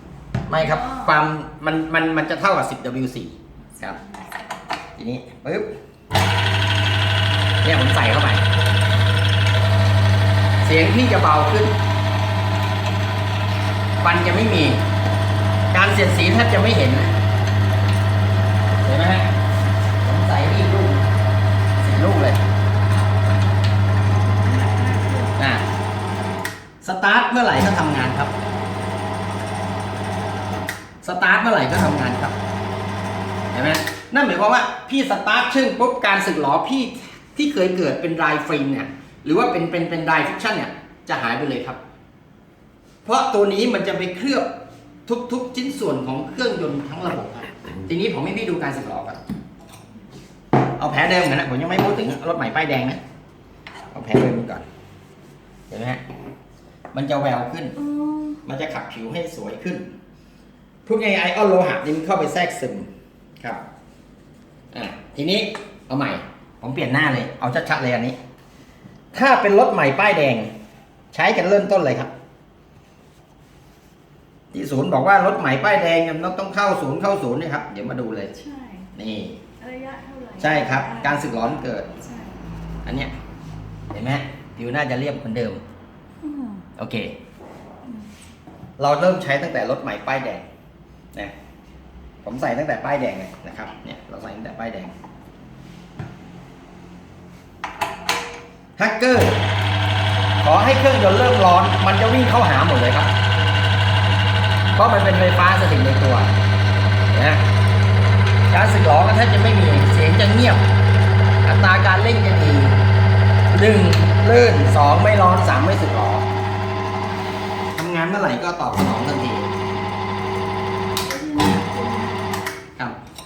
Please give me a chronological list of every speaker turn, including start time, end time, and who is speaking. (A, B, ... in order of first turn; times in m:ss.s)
0:00.5-0:04.0 A
0:00.5-0:01.1 B
0:03.7-0:04.6 B
0:05.0-0:05.7 A
0:07.6-0:08.4 A
0:10.6-0:11.8 A
0:14.0-0:14.8 A
0:15.7-0:17.1 A
0:18.8-0:19.3 A
0:20.0-0:21.1 A
0:21.8-0:22.4 A
0:24.2-0:25.4 B
0:25.4-0:25.6 A
0:26.8-0:28.3 A
0:31.0-0:32.4 A
0:33.5-0:41.8 A
0:43.0-0:44.5 A
0:45.1-0:49.2 A
0:50.8-0:53.0 A
0:53.9-0:54.6 A
0:55.7-0:56.0 A
0:56.9-0:57.8 A
0:57.8-0:58.4 B
0:58.4-0:59.9 A
1:00.8-1:02.9 A
1:04.7-1:08.2 A
1:09.1-1:10.5 A
1:11.1-1:12.1 A
1:14.5-1:18.3 A
1:18.3-1:18.9 B
1:18.9-1:19.4 A
1:19.6-1:22.3 B
1:20.4-1:21.9 A
1:22.8-1:23.1 A
1:23.9-1:25.6 A
1:26.2-1:26.7 B
1:26.8-1:27.2 A
1:28.8-1:30.4 A
1:32.2-1:34.9 A
1:38.8-1:39.4 A
1:40.4-1:43.1 A
1:44.8-1:46.3 A
1:47.1-1:47.4 A
1:48.5-1:50.6 A
1:51.4-1:52.8 A
1:53.5-1:56.2 A
1:57.8-1:59.5 A
2:01.0-2:02.4 B